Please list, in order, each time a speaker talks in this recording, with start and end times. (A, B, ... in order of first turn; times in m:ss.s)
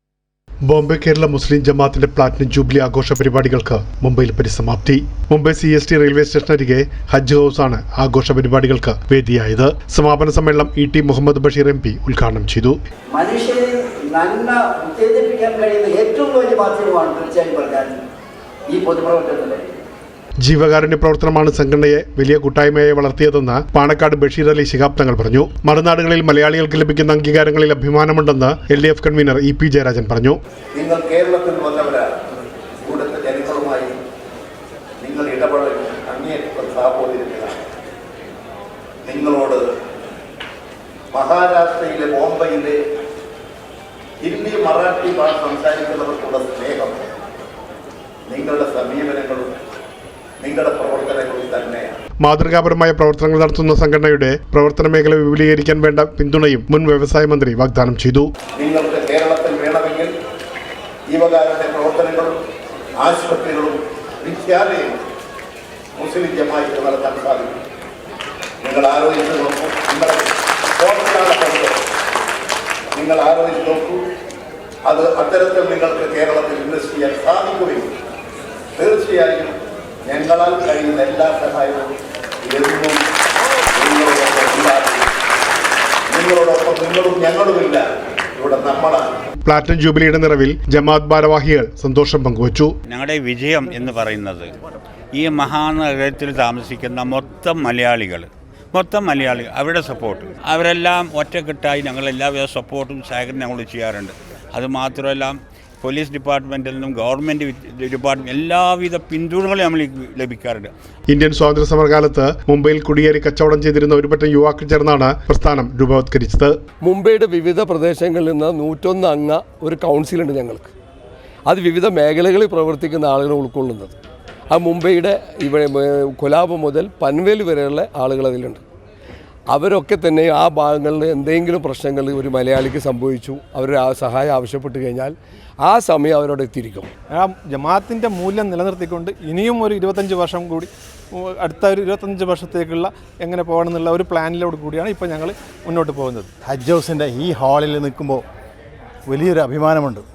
0:00.6-0:12.8 A
0:13.1-0:18.0 B
0:18.7-0:19.8 B
0:20.4-0:30.4 A
0:30.7-0:32.2 C
0:32.8-0:33.9 C
0:35.0-0:37.6 C
0:39.0-0:39.6 C
0:41.1-0:42.8 C
0:44.2-0:47.0 C
0:48.3-0:49.5 C
0:50.4-0:52.0 C
0:52.2-0:58.3 A
0:58.6-1:00.1 C
1:01.1-1:02.4 C
1:03.0-1:05.0 C
1:06.0-1:07.6 C
1:08.6-1:11.7 C
1:12.9-1:14.0 C
1:14.8-1:17.9 C
1:18.8-1:21.9 C
1:22.4-1:23.0 C
1:23.7-1:25.1 C
1:26.1-1:27.8 C
1:28.4-1:29.1 C
1:29.4-1:32.7 A
1:32.9-1:34.5 D
1:35.1-1:50.7 D
1:51.1-1:56.6 A
1:56.8-2:00.7 E
2:01.4-2:04.0 E
2:04.5-2:08.6 E
2:09.5-2:16.9 E
2:17.1-2:26.3 F
2:26.4-2:28.2 G
2:29.1-2:30.0 G